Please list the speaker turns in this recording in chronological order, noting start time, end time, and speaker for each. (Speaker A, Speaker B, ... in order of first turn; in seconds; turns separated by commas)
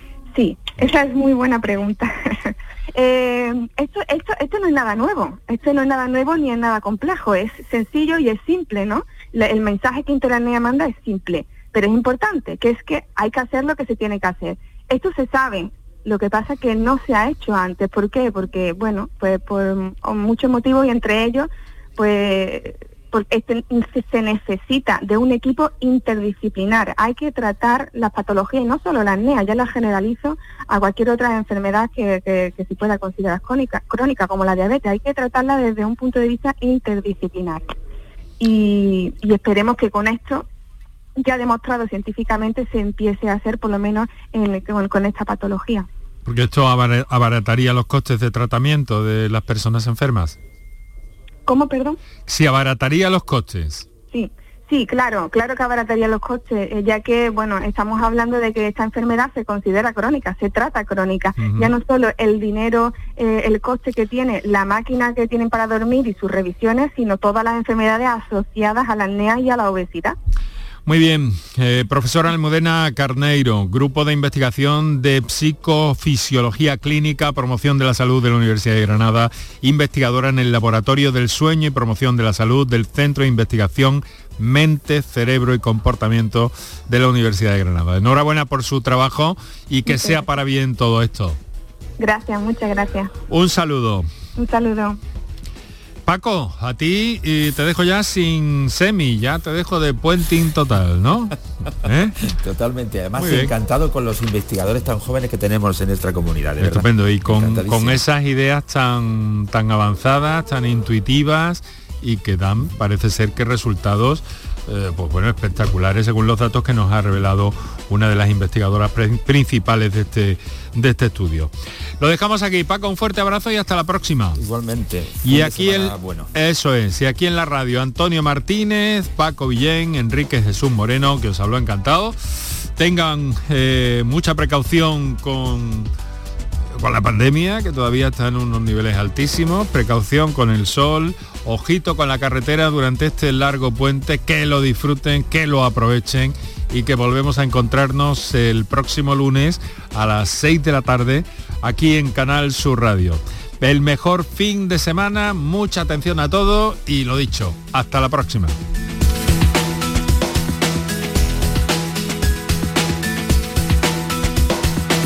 Speaker A: 0.3-37.7, Speaker A: 38.4-40.5, Speaker A: 41.2-45.9, Speaker B: 46.2-50.4, Speaker A: 51.5-52.0, Speaker B: 52.3-53.9, Speaker A: 54.1-70.2, Speaker B: 61.4-61.7, Speaker B: 70.9-91.4, Speaker A: 89.9-90.3, Speaker A: 92.0-93.1, Speaker B: 93.3-94.1, Speaker A: 94.4-95.0, Speaker B: 96.1-102.2, Speaker C: 102.2-108.0, Speaker B: 103.2-103.5, Speaker B: 106.6-124.4, Speaker C: 124.3-126.3, Speaker B: 125.2-135.9, Speaker B: 136.7-158.6